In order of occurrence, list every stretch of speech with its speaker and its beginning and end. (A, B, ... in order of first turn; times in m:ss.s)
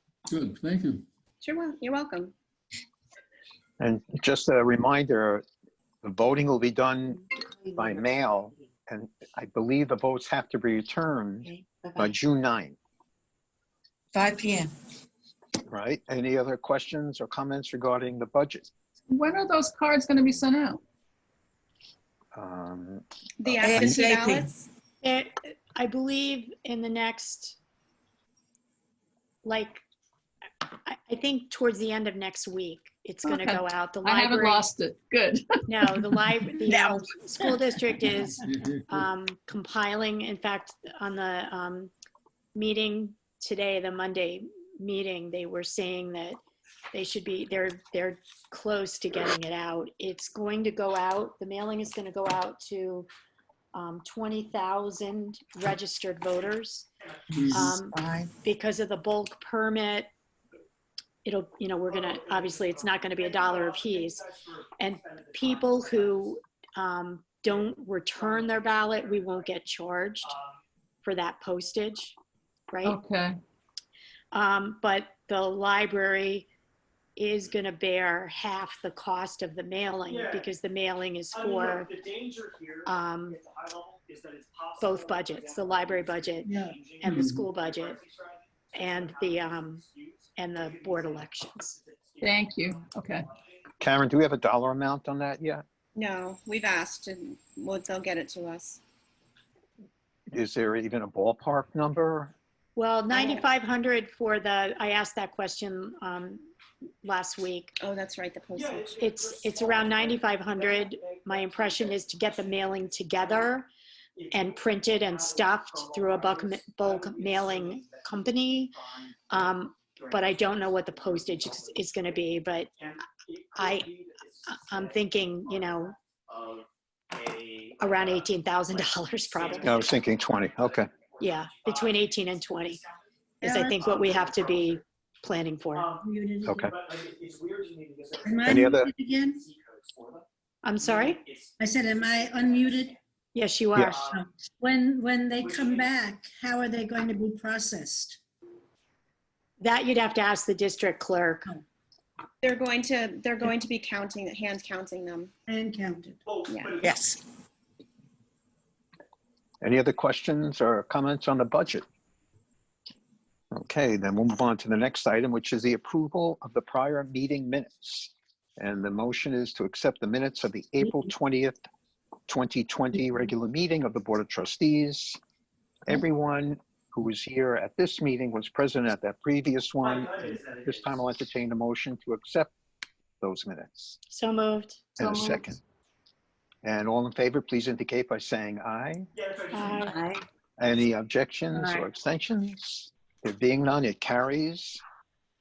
0:00.3-0:01.0 A
0:01.4-0:02.3 B
0:03.8-0:05.4 C
0:06.0-0:12.8 C
0:07.6-0:08.0 D
0:11.4-0:12.1 D
0:14.1-0:14.7 D
0:15.7-0:18.7 C
0:19.1-0:20.8 E
0:22.3-0:23.9 C
0:23.4-0:24.7 B
0:23.6-0:24.5 D
0:25.0-0:27.6 F
0:29.4-0:29.8 F
0:30.7-0:34.7 F
0:33.2-0:36.2 E
0:35.7-0:41.9 F
0:37.4-0:38.0 D
0:38.2-0:39.1 A
0:42.5-0:46.4 F
0:46.9-0:53.1 F
0:53.7-0:56.9 F
0:57.0-0:57.7 G
0:57.3-0:57.8 A
0:57.5-1:00.1 F
0:57.8-0:58.3 D
1:01.2-1:04.2 F
1:01.9-1:06.4 G
1:04.8-1:10.3 F
1:07.5-1:09.5 G
1:10.2-1:10.6 G
1:11.0-1:12.1 F
1:12.7-1:13.0 F
1:12.8-1:13.4 E
1:14.3-1:16.5 F
1:17.2-1:21.9 F
1:20.1-1:20.5 G
1:21.3-1:33.5 G
1:22.8-1:23.4 F
1:24.8-1:28.0 F
1:26.4-1:26.8 H
1:27.0-1:27.4 A
1:28.7-1:31.8 F
1:32.2-1:33.2 E
1:33.8-1:35.6 C
1:35.9-1:38.8 B
1:40.3-1:42.3 C
1:42.8-1:46.4 F
1:43.1-1:43.4 B
1:47.0-1:47.7 F
1:47.8-1:49.0 B
1:48.5-1:53.5 G
1:48.9-1:53.7 F
1:54.2-2:13.1 G
1:54.3-1:58.8 F
1:59.3-2:02.7 F
2:03.5-2:03.9 F
2:04.5-2:05.9 F
2:07.8-2:09.9 F
2:09.6-2:10.9 C
2:11.2-2:12.8 F
2:13.4-2:13.8 H
2:13.4-2:15.9 F
2:13.7-2:14.8 G
2:15.7-2:16.1 G
2:15.9-2:16.7 H
2:16.4-2:16.7 C
2:16.6-2:20.2 G
2:18.2-2:19.4 H
2:18.4-2:18.9 C
2:20.6-2:21.2 F
2:20.8-2:22.9 G
2:21.6-2:23.0 H
2:23.3-2:24.0 F
2:23.8-2:24.2 G
2:24.1-2:28.2 H
2:25.4-2:26.0 G
2:29.6-2:31.5 F
2:32.4-2:35.3 B
2:35.5-2:36.2 H
2:36.2-2:37.0 G
2:36.5-2:36.8 B
2:36.8-2:37.2 D
2:39.6-2:41.8 C
2:43.5-2:51.7 C
2:52.3-2:55.2 C
2:55.8-3:02.5 C
2:59.8-3:01.0 G
3:03.2-3:04.0 C
3:04.1-3:04.8 F
3:05.0-3:05.6 C
3:05.0-3:05.5 E
3:06.6-3:09.1 C
3:09.1-3:09.9 G
3:09.5-3:10.0 F
3:09.8-3:10.2 D
3:10.6-3:14.8 C